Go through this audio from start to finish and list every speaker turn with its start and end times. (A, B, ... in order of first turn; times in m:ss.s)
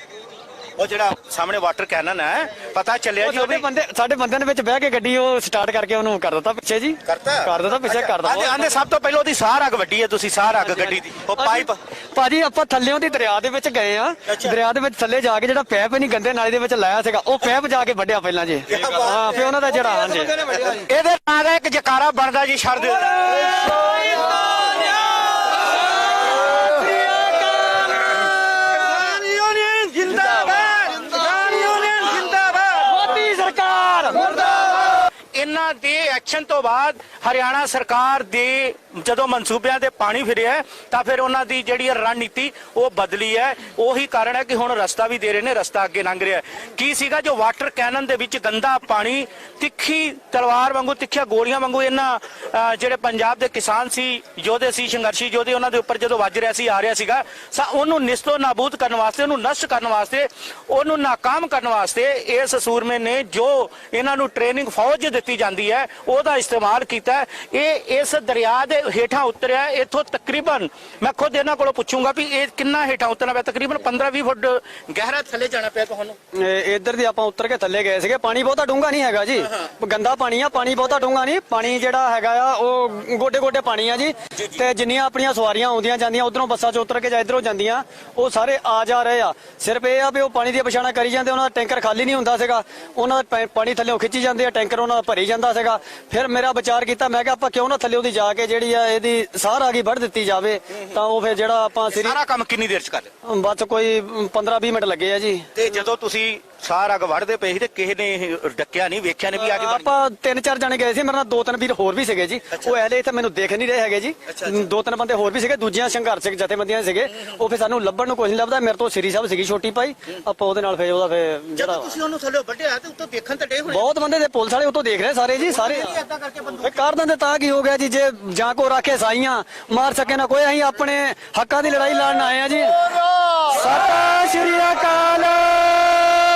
0:00.8-0:03.6 A
0:03.2-0:08.7 B
0:07.0-0:11.8 A
0:10.6-0:20.7 B
0:14.3-0:14.6 A
0:18.7-0:19.3 A
0:20.4-0:23.8 A
0:23.3-0:24.8 B
0:26.4-0:28.2 B
0:28.2-0:33.0 A
0:32.9-0:34.6 B
0:34.3-1:16.2 A
1:16.3-1:42.2 B
1:41.9-1:43.1 A
1:43.2-1:45.5 B
1:45.6-1:50.0 A
1:49.4-2:01.9 B
1:54.3-1:54.6 A
2:01.6-2:03.9 A
2:03.7-2:05.9 B
2:05.4-2:06.8 A
2:06.6-2:12.9 B
2:13.4-2:15.8 A
2:14.1-2:15.2 B